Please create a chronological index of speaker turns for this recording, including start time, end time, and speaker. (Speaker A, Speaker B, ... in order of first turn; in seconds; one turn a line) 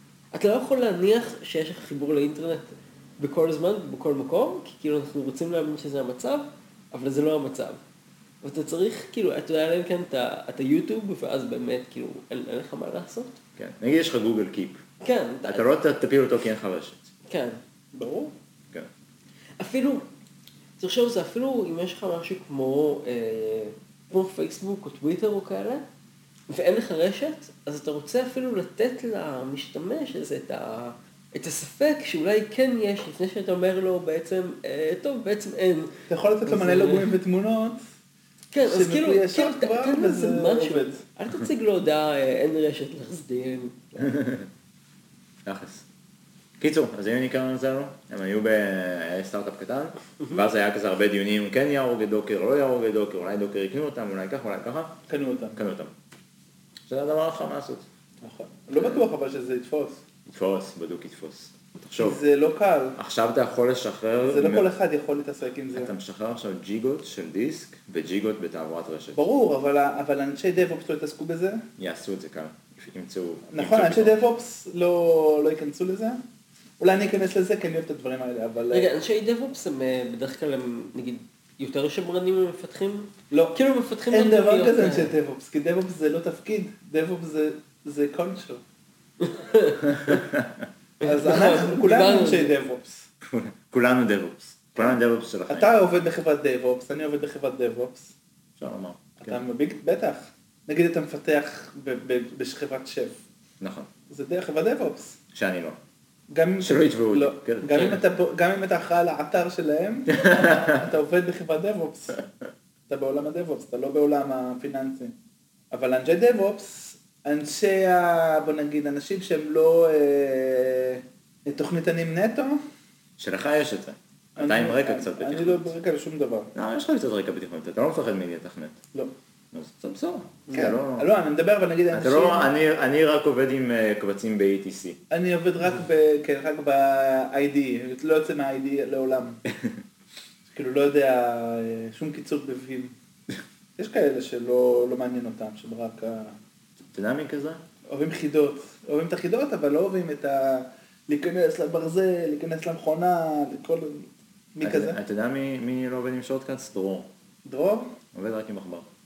Speaker A: 0.3-7.8
Speaker A: 8.4-13.4
Speaker B: 13.6-14.8
Speaker A: 15.0-15.7
Speaker B: 15.5-17.1
Speaker A: 17.3-17.6
Speaker C: 17.9-18.3
Speaker A: 19.6-20.0
Speaker A: 20.8-25.8
Speaker A: 26.5-35.9
Speaker C: 36.1-37.8
Speaker A: 36.5-37.1
Speaker A: 38.5-44.1
Speaker C: 38.6-41.0
Speaker B: 44.0-44.5
Speaker B: 45.4-45.8
Speaker B: 46.6-55.0
Speaker C: 55.1-55.6
Speaker B: 55.5-55.9
Speaker B: 56.9-57.9
Speaker C: 58.2-60.0
Speaker B: 58.7-59.0
Speaker B: 60.3-62.2
Speaker C: 62.0-63.0
Speaker B: 63.0-64.7
Speaker C: 64.2-65.9
Speaker B: 65.7-69.2
Speaker C: 69.1-71.6
Speaker B: 71.8-74.2
Speaker C: 73.5-76.2
Speaker C: 76.8-78.9
Speaker A: 78.7-85.1
Speaker C: 83.3-83.6
Speaker C: 84.1-88.6
Speaker A: 89.2-90.2
Speaker B: 90.0-90.6
Speaker C: 91.0-93.0
Speaker A: 91.0-92.5
Speaker B: 93.2-95.7
Speaker C: 95.5-98.1
Speaker B: 98.6-99.4
Speaker C: 99.2-103.2
Speaker B: 103.6-103.9
Speaker C: 104.1-105.2
Speaker B: 105.3-105.8
Speaker C: 106.3-112.2
Speaker B: 106.6-108.0
Speaker B: 110.1-110.8
Speaker C: 112.9-115.1
Speaker C: 115.7-122.6
Speaker B: 123.2-125.7
Speaker C: 124.4-126.5
Speaker B: 126.5-128.8
Speaker B: 129.5-131.1
Speaker C: 130.5-132.5
Speaker B: 131.9-135.0
Speaker C: 135.1-139.4
Speaker B: 139.5-139.8
Speaker C: 140.5-142.9
Speaker C: 143.8-146.3
Speaker B: 146.9-147.6
Speaker C: 147.9-155.0
Speaker B: 154.6-157.1
Speaker C: 157.4-157.9
Speaker B: 158.1-158.8